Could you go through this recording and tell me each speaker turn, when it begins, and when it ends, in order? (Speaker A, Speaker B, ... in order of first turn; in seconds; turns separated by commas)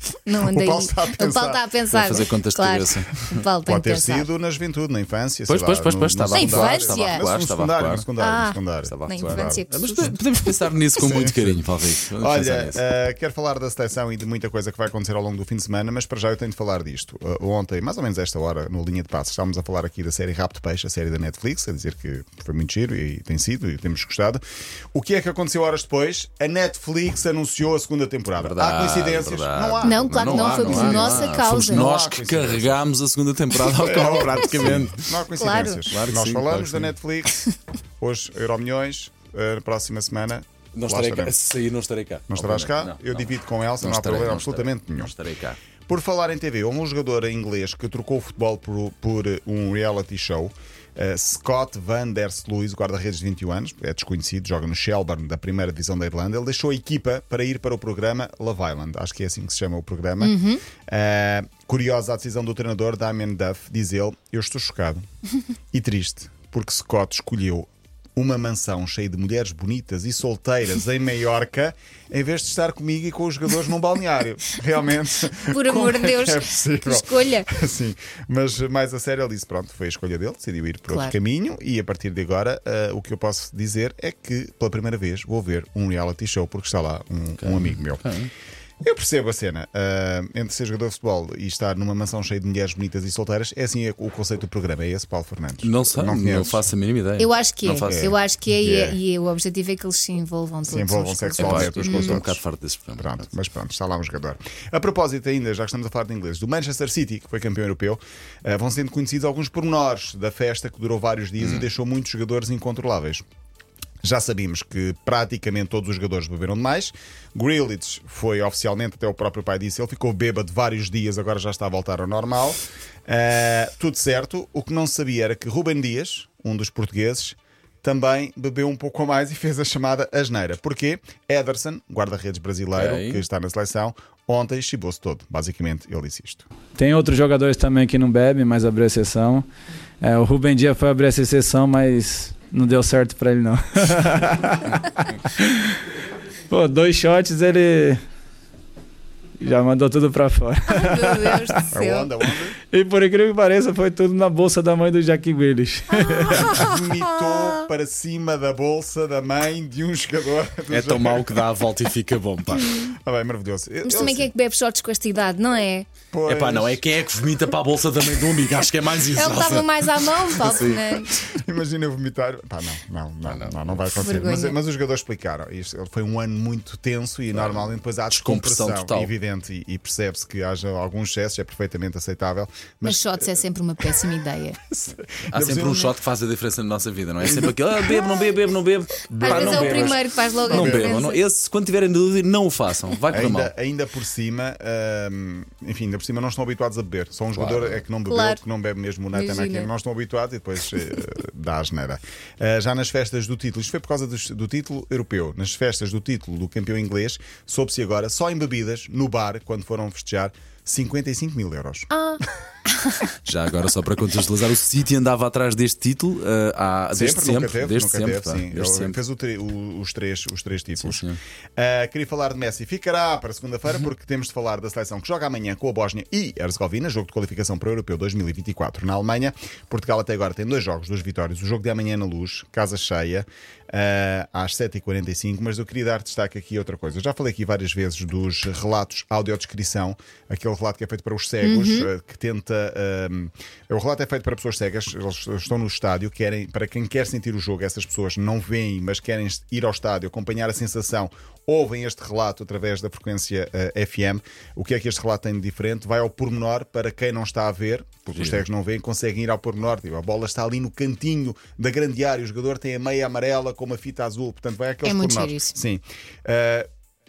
Speaker A: 0.3-4.3, Speaker B: 0.4-1.6, Speaker C: 1.9-3.5, Speaker B: 3.6-10.1, Speaker C: 5.5-8.1, Speaker A: 6.3-7.2, Speaker A: 8.2-10.2, Speaker C: 8.8-12.8, Speaker B: 11.0-11.6, Speaker B: 12.2-24.4, Speaker B: 24.9-32.8, Speaker C: 28.4-35.2, Speaker A: 29.8-31.9, Speaker B: 33.8-37.4, Speaker A: 35.3-35.8, Speaker C: 35.9-36.9, Speaker B: 38.0-41.3, Speaker C: 40.8-45.6, Speaker B: 42.3-45.1, Speaker B: 45.9-60.4, Speaker A: 60.2-60.6, Speaker B: 60.9-65.0, Speaker B: 65.7-88.1, Speaker A: 75.5-77.5, Speaker A: 80.9-81.2, Speaker C: 87.4-88.3, Speaker B: 88.8-96.6, Speaker C: 95.6-98.1, Speaker A: 97.2-102.3, Speaker B: 97.7-99.0, Speaker B: 100.7-102.4, Speaker C: 101.4-103.3, Speaker B: 103.0-113.2, Speaker C: 111.4-111.7, Speaker B: 114.0-136.5, Speaker C: 132.8-133.2, Speaker D: 136.8-139.5, Speaker D: 140.0-145.1, Speaker D: 146.5-148.0, Speaker D: 149.4-151.7, Speaker A: 150.7-152.1, Speaker B: 151.7-152.6, Speaker D: 152.7-156.4, Speaker A: 155.9-157.5, Speaker B: 156.3-161.5, Speaker C: 160.7-162.8, Speaker B: 162.7-164.3, Speaker A: 163.9-165.9, Speaker B: 166.1-166.8, Speaker C: 166.3-171.1, Speaker A: 169.0-171.2, Speaker B: 171.3-183.9, Speaker C: 173.3-174.0, Speaker A: 174.0-174.6, Speaker C: 177.3-179.1, Speaker A: 182.8-184.6, Speaker B: 184.7-185.9, Speaker C: 185.3-193.5, Speaker B: 187.2-188.1, Speaker B: 189.0-191.0, Speaker A: 189.2-191.2, Speaker B: 193.1-211.9, Speaker C: 197.3-197.8, Speaker A: 198.1-198.4, Speaker A: 199.1-199.7, Speaker A: 211.9-213.0, Speaker C: 213.2-219.0, Speaker B: 216.9-221.0, Speaker C: 220.8-221.2, Speaker B: 221.6-266.7, Speaker A: 241.4-241.9, Speaker C: 258.1-258.4, Speaker A: 264.8-265.6